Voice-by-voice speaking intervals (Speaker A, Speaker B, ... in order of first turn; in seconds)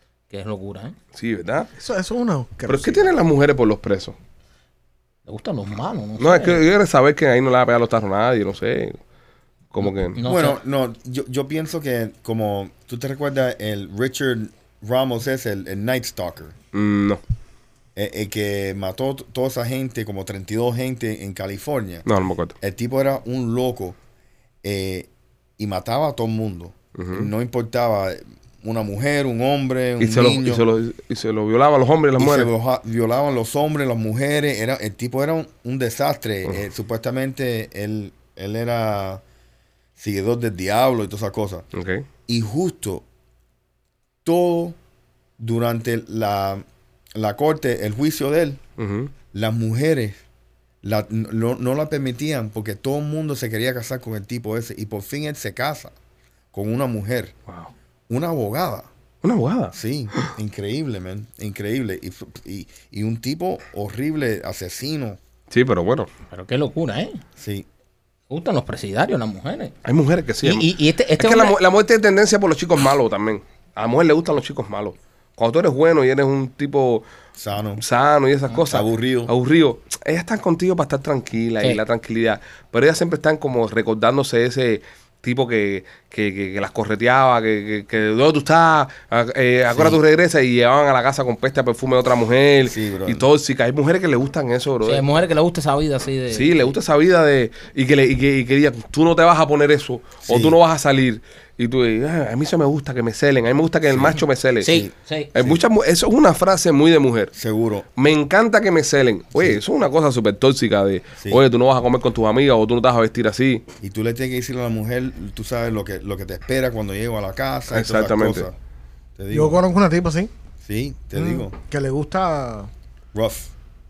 Speaker A: 0.3-0.9, 5.3-6.6, 10.1-10.6, 66.3-67.2, 68.3-69.7, 70.4-71.5, 94.8-96.7, 104.6-105.3
Speaker B: 1.1-1.7, 2.7-4.2, 6.2-9.0, 9.7-10.2, 16.7-17.2, 22.1-22.5, 27.0-27.3, 30.0-32.5, 41.7-42.0, 48.8-49.1, 59.2-59.7, 65.5-66.1, 69.8-77.0, 77.8-95.0, 96.3-104.8, 105.3-107.3, 108.0-113.6, 117.7-118.5
Speaker C: 1.8-3.1, 119.3-120.3, 121.2-122.7
Speaker D: 10.2-16.6, 17.9-22.1, 22.6-24.0, 24.6-30.6, 32.2-39.2, 40.0-41.6, 42.3-43.0, 44.2-44.8, 45.4-46.6, 47.2-48.6, 49.3-50.2, 50.8-55.9, 56.5-57.4, 58.1-58.9, 59.7-65.2, 67.4-67.7, 77.4-77.8, 78.6-79.3, 92.7-93.3, 100.3-100.6, 103.9-105.6, 107.3-107.9, 109.3-109.6, 113.8-118.5, 119.2-119.6, 120.6-121.5, 123.1-123.5